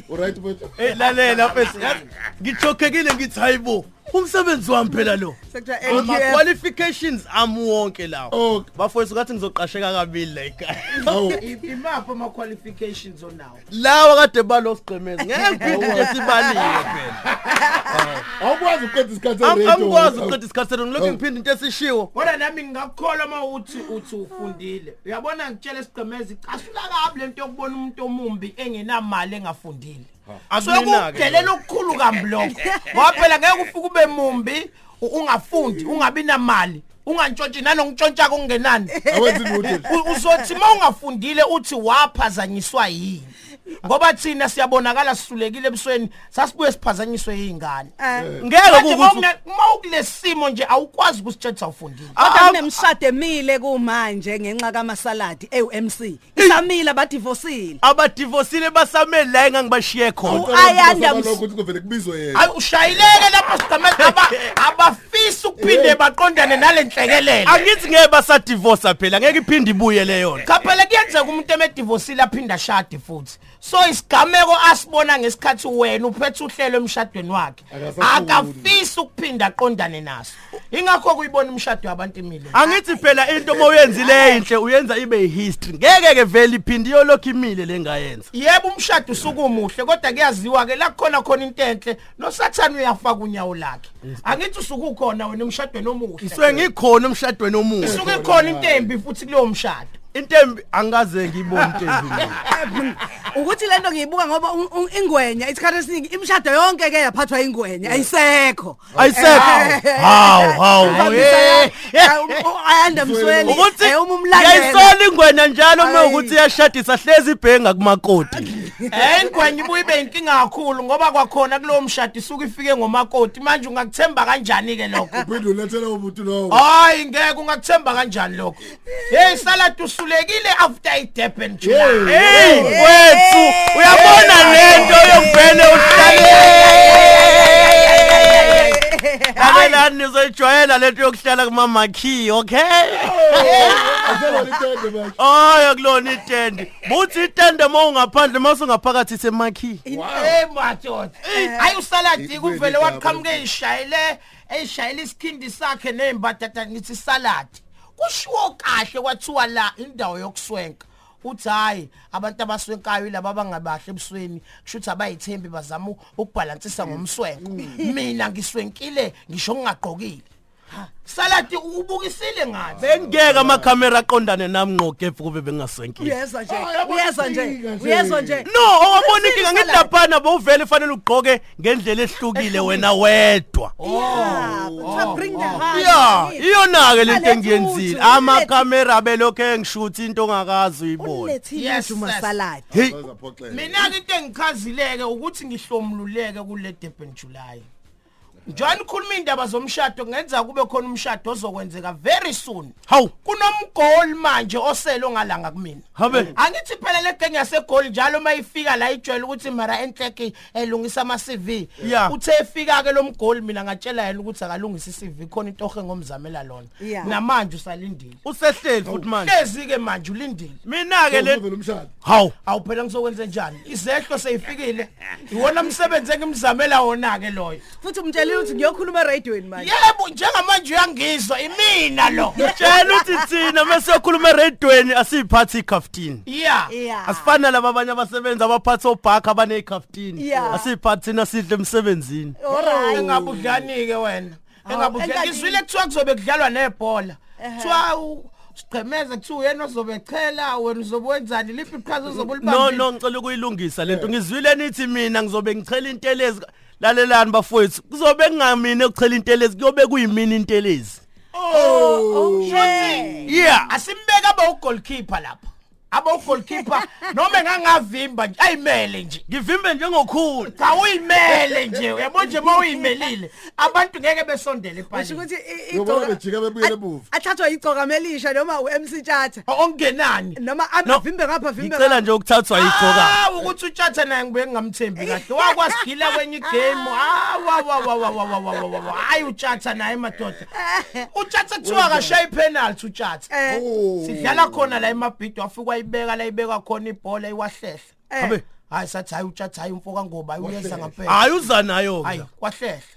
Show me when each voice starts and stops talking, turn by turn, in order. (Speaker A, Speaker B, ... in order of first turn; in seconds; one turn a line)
Speaker A: 0.1-0.8
Speaker B: 0.8-11.2
Speaker C: 0.9-2.1
Speaker D: 5.5-6.5
Speaker C: 5.9-6.2
Speaker A: 8.3-8.7
Speaker A: 11.0-11.4
Speaker C: 11.3-13.6
Speaker B: 13.7-17.2
Speaker D: 15.2-16.4
Speaker A: 15.6-16.2
Speaker C: 16.6-16.8
Speaker D: 17.6-17.9
Speaker A: 17.8-20.4
Speaker B: 19.4-22.1
Speaker A: 21.0-21.2
Speaker C: 22.1-39.0
Speaker B: 30.5-31.5
Speaker D: 32.6-33.0
Speaker D: 39.0-40.4
Speaker A: 39.0-39.9
Speaker C: 39.7-47.9
Speaker D: 48.0-48.3
Speaker A: 48.1-48.5
Speaker B: 48.4-49.3
Speaker C: 48.6-52.2
Speaker B: 52.2-52.8
Speaker D: 52.2-57.8
Speaker B: 57.8-60.5
Speaker A: 60.2-62.5
Speaker D: 60.3-61.4
Speaker C: 62.3-67.7
Speaker B: 64.0-64.5
Speaker A: 65.6-66.0
Speaker B: 67.5-70.5
Speaker C: 70.4-82.6
Speaker A: 77.7-78.8
Speaker B: 82.5-88.3
Speaker D: 82.5-83.2
Speaker D: 83.9-84.4
Speaker C: 88.3-96.7
Speaker B: 94.0-94.4
Speaker B: 96.2-98.0
Speaker A: 97.8-99.0
Speaker C: 97.8-99.9
Speaker B: 100.1-102.4
Speaker D: 102.5-114.9
Speaker A: 108.9-109.4
Speaker B: 109.0-112.5
Speaker A: 110.8-111.3
Speaker A: 112.9-113.7
Speaker B: 113.5-118.6
Speaker D: 115.8-116.4
Speaker D: 118.6-119.0
Speaker C: 118.9-125.2
Speaker A: 125.1-126.6
Speaker C: 126.5-132.6
Speaker A: 131.6-132.7
Speaker B: 132.1-138.8
Speaker D: 132.1-139.8
Speaker C: 133.9-138.8
Speaker A: 134.6-135.0
Speaker B: 139.4-143.8
Speaker A: 143.0-145.2
Speaker C: 143.3-144.5
Speaker D: 143.8-144.5
Speaker B: 145.2-149.8
Speaker D: 149.8-150.2
Speaker A: 149.9-150.4
Speaker C: 150.1-170.2
Speaker D: 151.2-151.8
Speaker A: 152.1-153.4
Speaker A: 166.7-167.8
Speaker C: 171.1-172.9
Speaker A: 172.7-173.8
Speaker B: 172.8-176.2
Speaker D: 176.0-179.9
Speaker A: 176.5-178.4
Speaker B: 178.4-183.7
Speaker D: 182.3-182.9
Speaker C: 183.8-185.9
Speaker D: 183.8-188.6
Speaker A: 184.1-185.7
Speaker B: 185.6-191.4
Speaker D: 191.0-192.7
Speaker C: 191.5-192.3
Speaker A: 192.7-193.9
Speaker C: 193.5-197.7
Speaker A: 198.5-198.8
Speaker C: 198.5-218.2
Speaker B: 205.9-206.3
Speaker B: 211.8-212.2
Speaker D: 216.8-217.1
Speaker B: 218.2-219.4
Speaker C: 219.2-220.6
Speaker B: 220.6-221.4
Speaker A: 221.1-221.9
Speaker B: 222.0-222.3
Speaker C: 222.4-227.6
Speaker D: 227.8-229.7
Speaker C: 228.2-228.7
Speaker C: 229.6-232.5
Speaker D: 232.1-233.2
Speaker B: 232.4-236.2
Speaker C: 236.2-236.7
Speaker D: 236.7-237.3
Speaker B: 237.1-242.4
Speaker D: 240.2-240.7
Speaker D: 242.4-243.2
Speaker C: 242.5-252.9
Speaker A: 242.6-243.7
Speaker D: 244.7-245.6
Speaker D: 247.4-247.8
Speaker B: 252.4-261.0
Speaker A: 253.8-254.1
Speaker A: 261.3-263.1
Speaker C: 261.4-261.8
Speaker D: 261.5-263.4
Speaker C: 262.4-269.2
Speaker B: 263.2-263.7
Speaker D: 266.4-266.9
Speaker B: 269.3-270.5
Speaker C: 270.5-275.2
Speaker D: 272.2-273.1
Speaker D: 274.9-279.4
Speaker A: 275.7-277.1
Speaker C: 279.5-280.4
Speaker D: 280.3-282.0
Speaker B: 281.6-283.2
Speaker C: 282.5-290.5
Speaker D: 285.0-285.8
Speaker D: 290.6-291.1
Speaker C: 291.1-293.3
Speaker A: 291.6-292.2
Speaker D: 293.3-293.6
Speaker A: 293.5-294.9
Speaker C: 294.0-297.9
Speaker D: 298.1-298.4
Speaker C: 298.7-301.3
Speaker A: 300.4-300.9
Speaker B: 301.1-302.2
Speaker C: 302.0-302.9